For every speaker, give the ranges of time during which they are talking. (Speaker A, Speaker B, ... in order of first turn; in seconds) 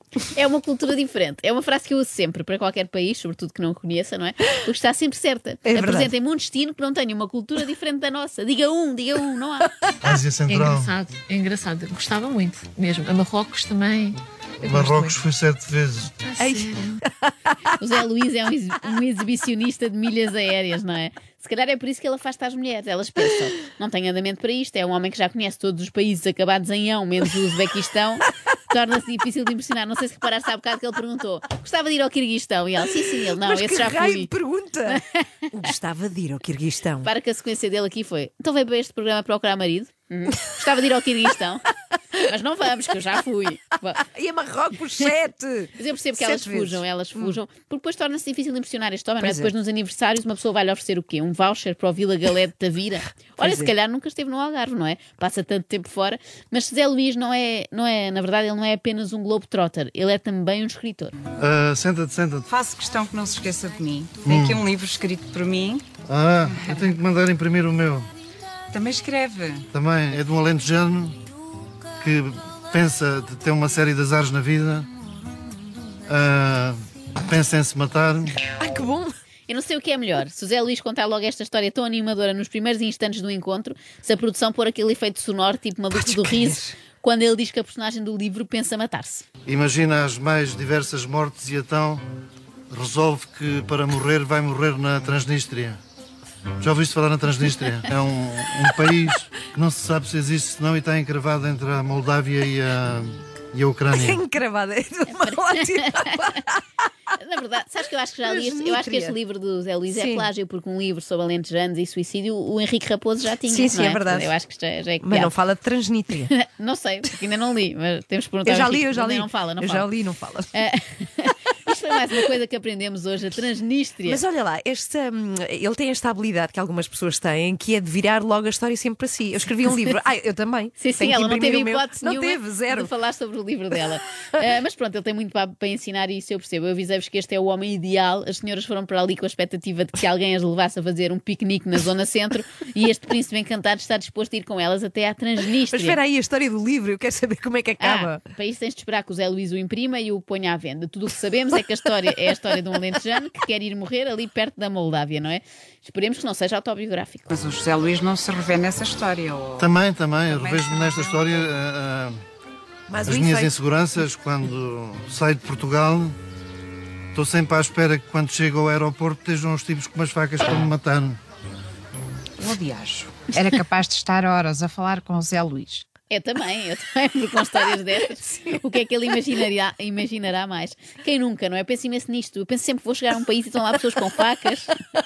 Speaker A: 0.3-9.7, 17.8-34.3, 34.9-35.2, 37.0-41.7, 42.2-44.0, 45.8-61.1, 79.5-89.2, 105.1-106.2, 107.2-115.3, 116.3-119.9, 120.5-124.2, 130.8-146.0, 147.8-157.3, 176.1-184.7
Speaker B: 5.7-6.1, 16.4-17.5, 33.4-37.1, 44.0-47.4, 49.2-49.5, 53.4-53.7, 78.6-79.1, 85.9-86.8, 103.9-106.6, 108.2-109.2, 109.9-110.3, 113.5-114.3, 115.0-116.3, 118.5-120.5, 124.0-132.9, 145.7-148.2, 162.9-163.5, 178.2-178.6
Speaker C: 10.0-10.9, 14.6-16.1, 61.4-62.5, 64.2-64.6, 66.1-68.1, 69.7-71.2, 72.0-74.9, 76.1-78.3, 89.5-92.0, 92.7-95.8, 96.6-104.2, 159.6-162.2, 163.0-166.2, 167.1-171.2
Speaker D: 10.5-15.2, 16.2-16.9
Speaker E: 62.5-65.8, 68.7-69.6, 157.3-159.7, 160.3-161.4, 172.4-175.8